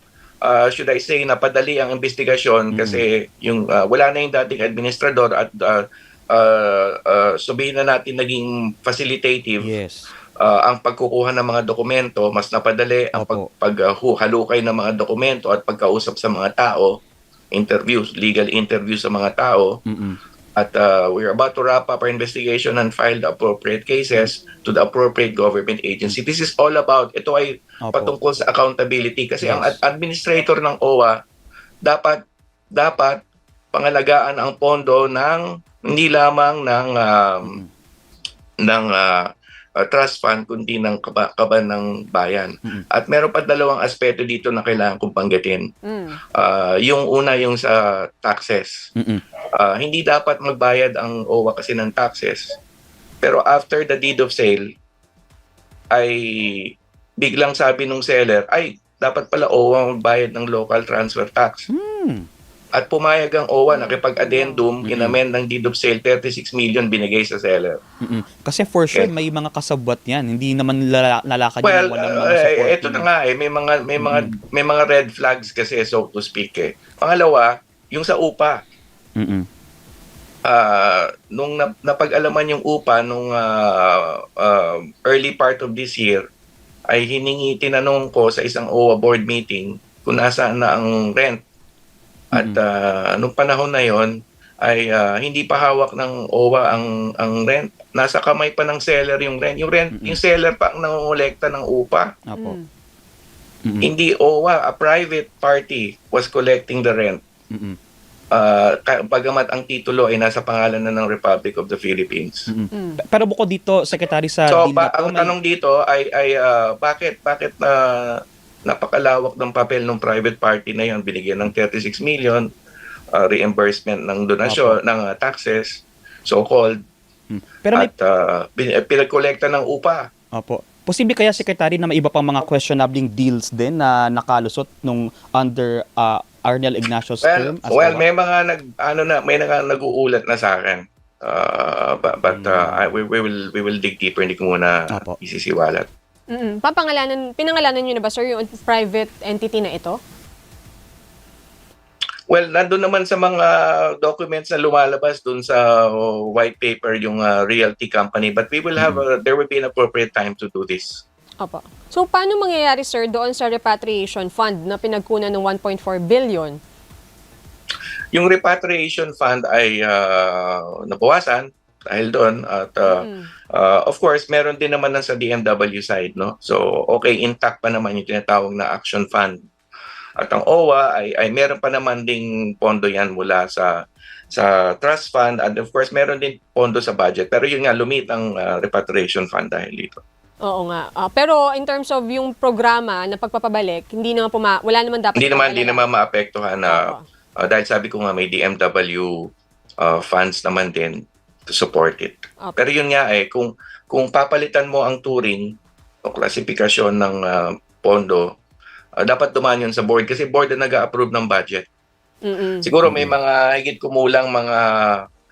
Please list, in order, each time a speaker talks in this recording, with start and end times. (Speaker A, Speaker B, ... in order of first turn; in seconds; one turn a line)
Speaker A: 0.5-9.7
Speaker B: 2.7-3.0
Speaker B: 9.6-10.1
Speaker A: 10.4-16.9
Speaker B: 13.2-13.5
Speaker A: 17.5-19.7
Speaker B: 19.9-20.2
Speaker A: 20.6-31.2
Speaker B: 27.9-28.1
Speaker B: 29.4-29.8
Speaker A: 31.9-32.2
Speaker A: 32.8-33.2
Speaker A: 33.7-37.6
Speaker B: 37.4-37.7
Speaker A: 38.6-39.2
Speaker A: 39.8-45.7
Speaker C: 45.8-46.2
Speaker A: 46.4-48.7
Speaker B: 49.0-49.2
Speaker A: 49.6-52.5
Speaker A: 53.2-54.6
Speaker A: 55.9-61.6
Speaker B: 61.7-62.3
Speaker A: 62.8-67.8
Speaker C: 63.7-64.7
Speaker B: 64.8-65.2
Speaker B: 68.0-73.1
Speaker A: 71.6-78.6
Speaker B: 74.0-74.3
Speaker B: 79.2-79.5
Speaker A: 80.5-86.2
Speaker A: 86.9-91.4
Speaker A: 92.3-94.1
Speaker A: 94.6-102.1
Speaker B: 99.9-100.2
Speaker B: 102.3-102.6
Speaker C: 102.4-102.7
Speaker B: 103.6-103.9
Speaker A: 103.8-107.2
Speaker B: 107.5-107.8
Speaker A: 108.3-112.5
Speaker B: 112.5-115.3
Speaker C: 112.7-113.0
Speaker A: 114.5-122.5
Speaker A: 123.1-126.8
Speaker B: 124.5-124.8
Speaker B: 127.3-127.9
Speaker A: 127.7-130.1
Speaker B: 130.4-138.1
Speaker A: 137.2-145.9
Speaker B: 142.3-142.9
Speaker C: 146.3-150.0
Speaker A: 152.3-161.0
Speaker B: 158.8-159.0
Speaker C: 161.4-166.6
Speaker A: 168.1-179.4
Speaker C: 172.9-173.3
Speaker A: 180.2-183.8
Speaker A: 184.3-190.0
Speaker C: 190.5-195.9
Speaker A: 195.2-199.1
Speaker C: 196.7-197.0
Speaker A: 199.8-205.5
Speaker A: 206.1-208.3
Speaker A: 209.0-211.7
Speaker C: 212.2-212.7
Speaker A: 212.6-215.0
Speaker B: 212.9-213.2